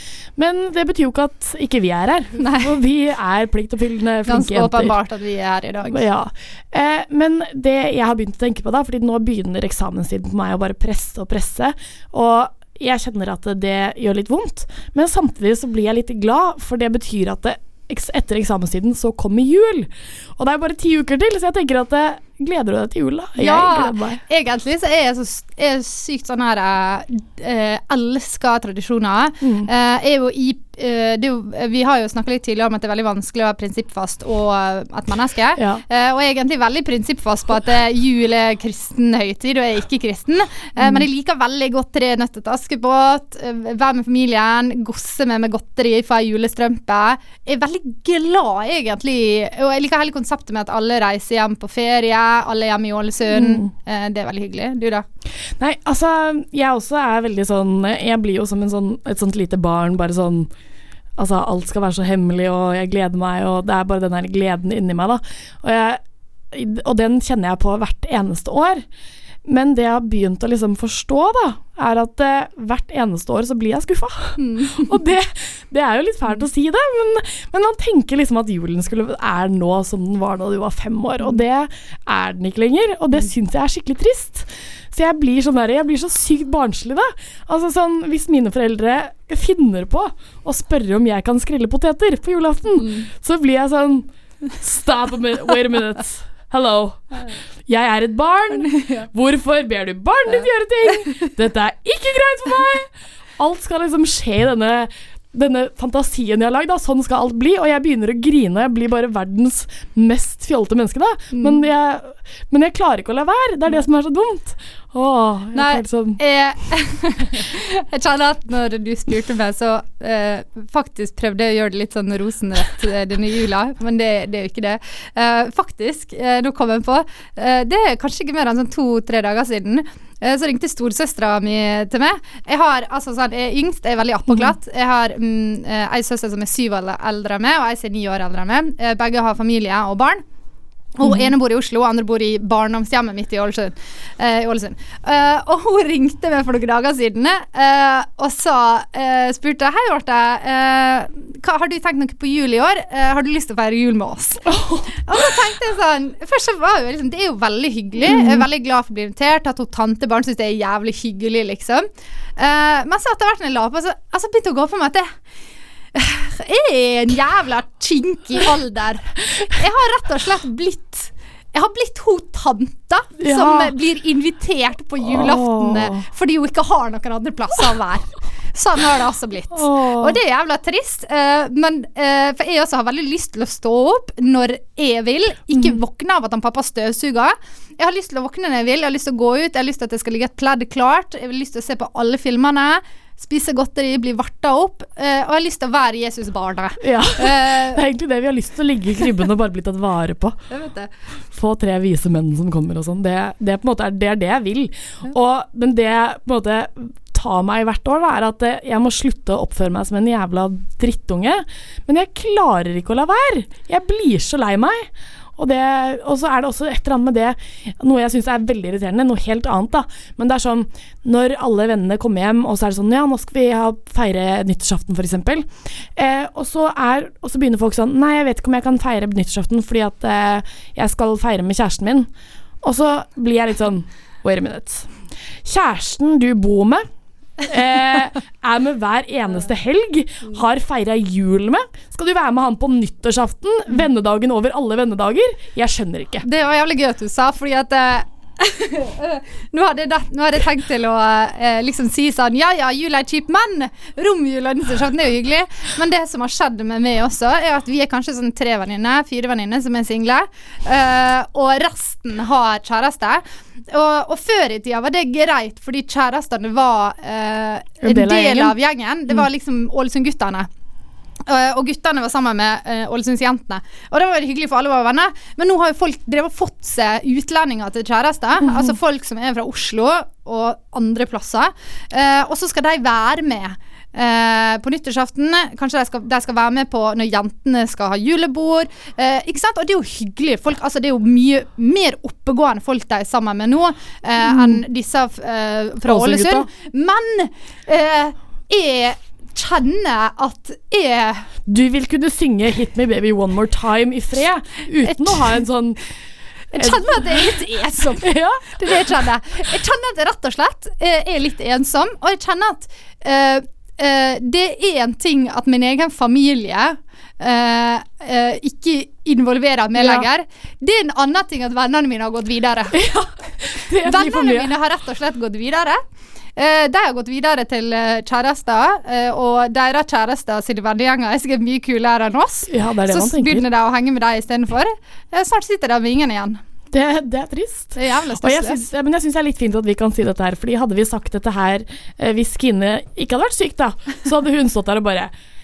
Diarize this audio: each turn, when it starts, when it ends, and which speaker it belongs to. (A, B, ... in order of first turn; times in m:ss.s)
0:00.4-0:05.0 A
0:02.4-0:02.8 B
0:04.2-0:06.0 B
0:05.8-0:24.2 A
0:23.4-0:55.0 B
0:29.4-0:29.7 A
0:35.6-0:35.8 A
0:40.8-0:41.1 A
0:53.3-0:53.7 A
0:55.4-1:00.5 A
1:01.2-1:08.8 A
1:09.4-1:56.2 A
1:14.4-1:14.9 B
1:32.8-1:33.1 B
1:38.6-1:39.0 B
1:51.3-1:51.6 B
1:55.5-2:20.2 B
2:21.0-2:41.8 B
2:21.0-2:21.3 A
2:34.4-2:35.3 A
2:38.0-2:38.5 A
2:42.4-2:45.1 B
2:45.9-3:17.8 B
2:53.2-2:53.7 A
2:55.0-2:56.0 A
2:59.5-3:00.2 A
3:16.8-3:20.4 A
3:20.5-3:20.9 B
3:21.3-3:52.1 A
3:52.6-3:54.9 A
3:55.4-3:56.9 A
3:57.4-4:06.3 A
4:06.2-4:30.5 B
4:27.8-4:28.6 A
4:31.3-5:01.3 B
4:38.5-4:38.7 A
4:54.2-4:54.6 A
4:55.8-4:56.5 A
5:01.5-5:05.8 A
5:04.8-5:05.4 B
5:06.5-5:22.8 B
5:06.5-5:07.2 A
5:08.0-5:08.8 A
5:19.8-5:20.1 A
5:22.7-5:24.5 A
5:23.8-5:25.8 B
5:26.4-5:36.4 B
5:32.5-5:33.4 A
5:36.7-5:45.1 A
5:37.8-5:38.6 B